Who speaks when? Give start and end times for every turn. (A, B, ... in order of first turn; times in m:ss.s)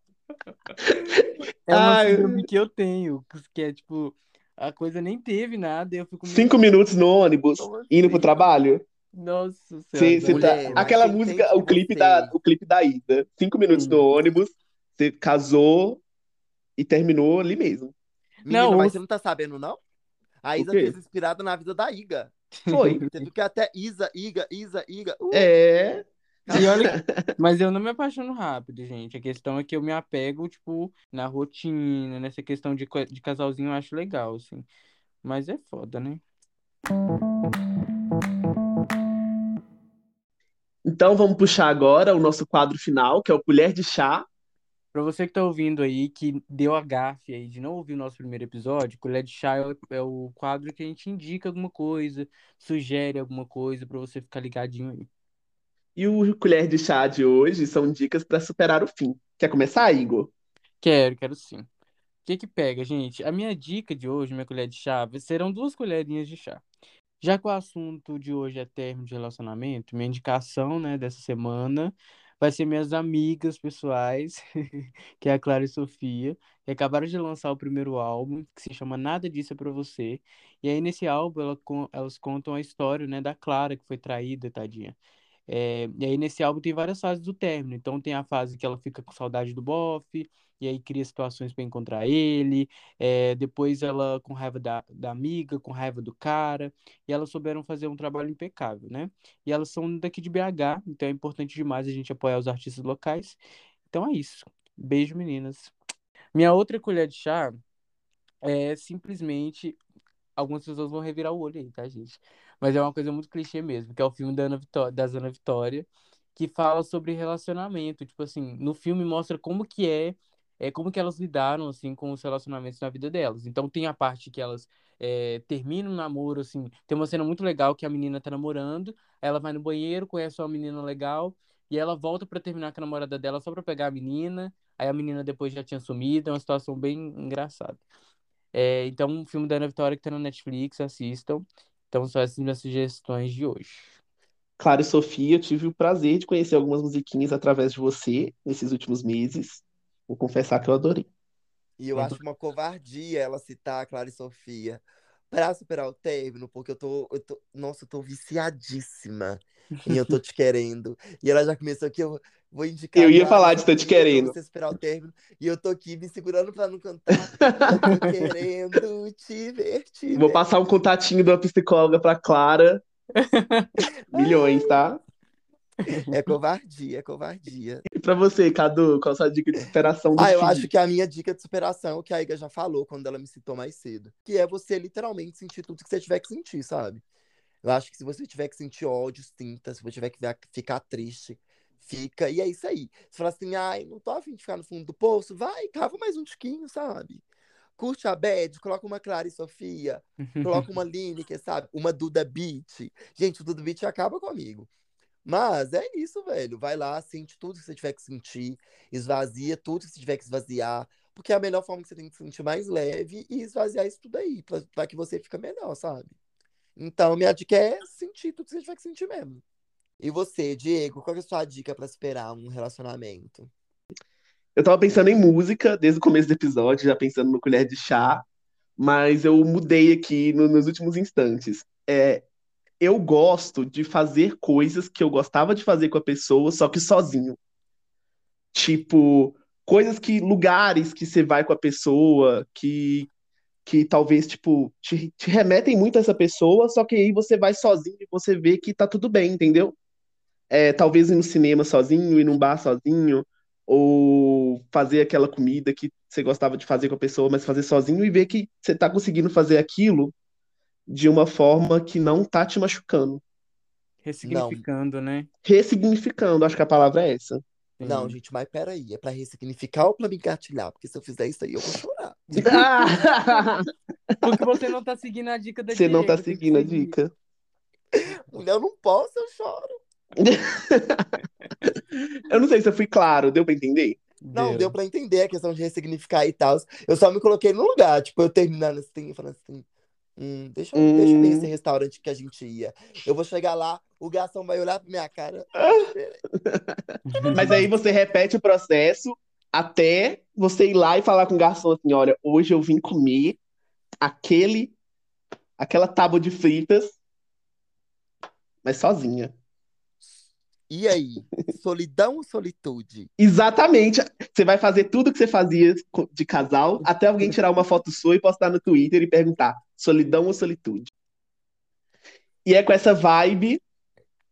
0:00.9-0:02.4 A
0:01.7-0:06.6 B
0:06.2-0:08.8 A
0:07.6-0:08.2 C
0:09.1-0:10.9 B
0:09.9-0:16.0 A
0:10.3-0:12.3 C
0:13.7-0:14.1 B
0:16.8-0:17.9 A
0:18.4-0:19.8 C
0:18.5-0:19.0 B
0:20.4-0:22.3 C
0:20.6-0:20.9 A
0:22.6-0:23.3 B
0:22.7-0:23.0 A
0:23.1-0:25.5 C
0:25.3-0:27.3 A
0:26.5-0:26.7 C
0:26.5-0:34.7 B
0:35.2-0:36.2 B
0:40.8-0:44.2 A
0:44.9-0:55.1 B
0:56.0-1:00.3 A
1:00.8-1:01.7 B
1:02.2-1:06.6 B
1:07.2-1:25.0 B
1:25.5-1:43.4 B
1:43.9-1:45.7 B
1:46.3-1:47.6 B
1:48.4-1:49.8 B
1:50.4-2:17.8 B
2:18.5-2:23.9 B
2:24.6-2:31.1 A
2:31.8-2:50.4 C
2:42.9-2:44.3 A
2:47.4-2:47.9 A
2:50.1-2:52.8 A
2:53.2-2:53.7 B
2:54.1-2:54.9 C
2:54.1-2:55.0 A
2:55.9-2:56.1 B
2:56.0-2:57.8 C
2:57.9-3:00.7 A
3:00.2-3:07.0 C
3:07.6-3:17.2 C
3:17.8-3:24.7 C
3:20.2-3:20.7 B
3:25.2-3:36.1 C
3:36.8-3:39.4 C
3:40.0-3:43.5 C
3:44.6-3:48.2 A
3:48.8-3:52.2 A
3:52.8-3:57.4 A
3:58.5-4:03.1 A
4:03.6-4:09.8 A
4:10.5-4:20.1 A
4:20.9-4:23.2 A
4:24.0-4:25.3 B
4:24.2-4:24.6 C
4:25.4-4:27.4 A
4:27.8-4:28.2 B
4:27.8-4:32.6 C
4:32.4-4:34.3 A
4:34.2-4:36.9 B
4:35.7-4:37.1 A
4:37.9-4:39.7 C
4:40.2-4:41.1 A
4:41.9-4:44.0 A
4:44.2-4:44.7 B
4:44.3-4:49.6 C
4:50.2-4:56.2 C
4:50.7-4:51.5 A
4:55.6-4:55.9 A
4:56.4-4:56.8 A
4:57.1-4:57.6 B
4:57.3-5:03.4 A
5:04.0-5:04.7 A
5:05.6-5:07.0 A
5:08.6-5:09.3 A
5:10.0-5:13.1 C
5:13.2-5:20.9 A
5:22.4-5:23.6 A